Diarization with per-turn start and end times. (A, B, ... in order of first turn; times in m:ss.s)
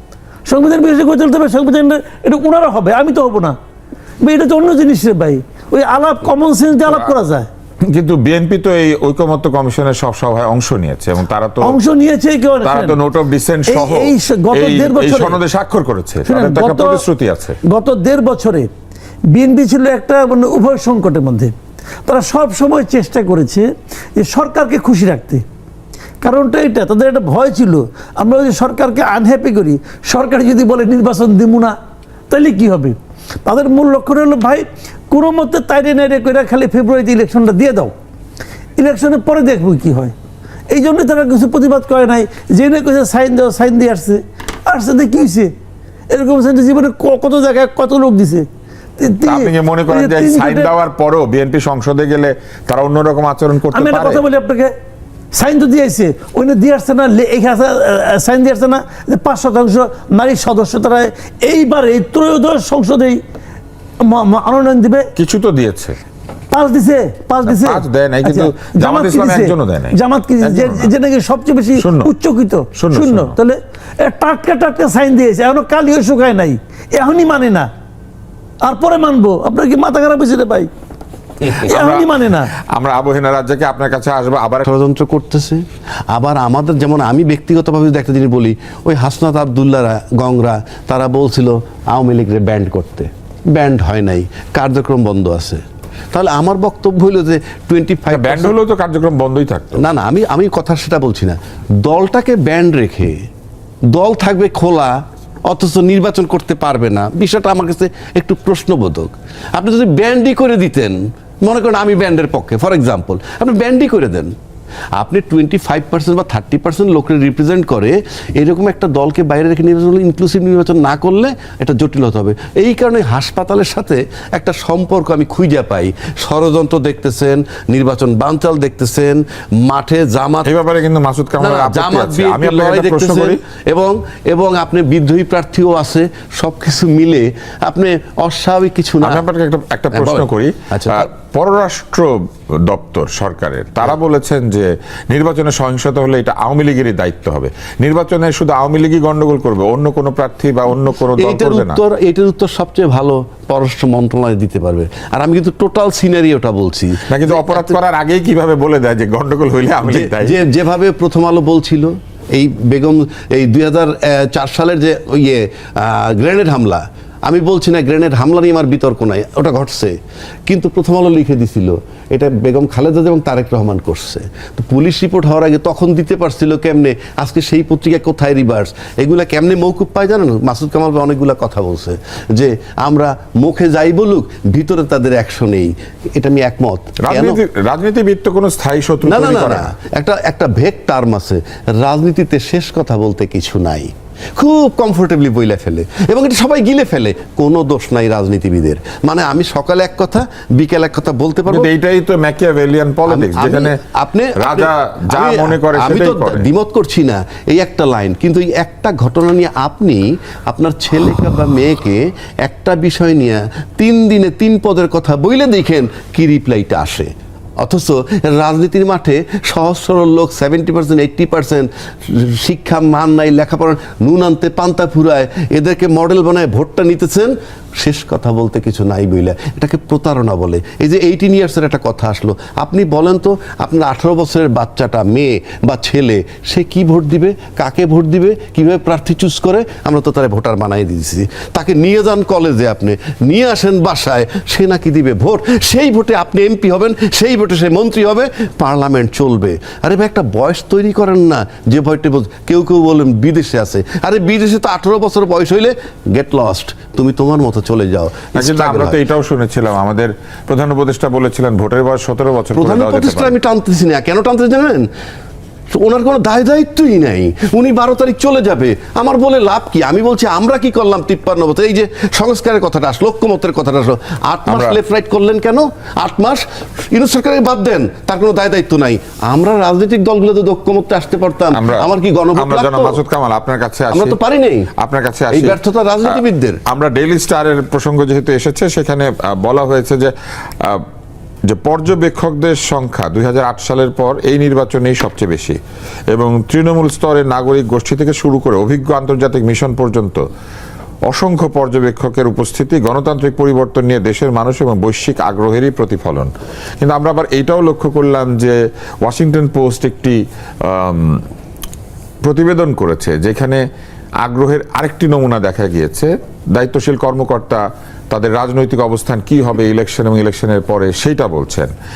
0:00.5-0:03.6 A
0:04.2-0:07.5 A
0:07.9-0:11.8 B
0:11.6-0:13.0 A
0:12.6-0:17.6 B
0:13.7-0:15.4 A
0:16.3-0:17.0 A
0:17.7-0:18.7 A
0:19.3-0:21.5 A
0:22.1-0:23.7 A
0:24.2-0:25.4 A
0:26.2-0:31.8 A
0:32.3-0:37.9 A
0:38.8-0:40.1 A
0:40.7-0:45.5 A
0:46.1-0:48.5 A
0:49.0-0:50.7 A
0:49.2-0:54.2 B
0:53.7-0:54.7 A
0:55.3-1:03.2 A
1:04.0-1:05.1 A
1:05.2-1:06.0 B
1:06.5-1:17.7 A
1:07.5-1:10.9 B
1:11.8-1:12.1 B
1:12.7-1:13.3 B
1:18.6-1:20.7 A
1:21.4-1:22.1 B
1:21.5-1:22.5 A
1:22.7-1:24.7 B
1:24.6-1:38.5 C
1:38.1-1:39.8 B
1:39.8-1:43.2 C
1:43.9-1:54.3 C
1:55.0-2:10.5 C
2:10.4-2:13.4 B
2:11.4-2:19.2 C
2:19.0-2:22.1 B
2:19.9-2:21.1 C
2:22.6-2:31.8 B
2:31.2-2:37.8 C
2:37.1-2:40.4 B
2:39.8-2:50.0 C
2:50.5-3:07.4 C
3:07.0-3:09.7 B
3:09.0-3:21.7 C
3:21.5-3:23.8 B
3:23.1-4:19.0 C
3:24.4-3:26.5 B
4:18.4-4:23.4 B
4:22.5-4:24.9 C
4:25.7-4:43.0 C
4:34.5-4:34.8 B
4:41.5-4:44.2 B
4:43.9-4:44.7 C
4:44.8-4:50.8 B
4:45.3-4:46.6 C
4:51.5-4:55.6 B
4:56.1-5:00.2 B
5:01.1-5:11.2 B
5:12.2-5:13.6 B
5:14.2-5:21.7 B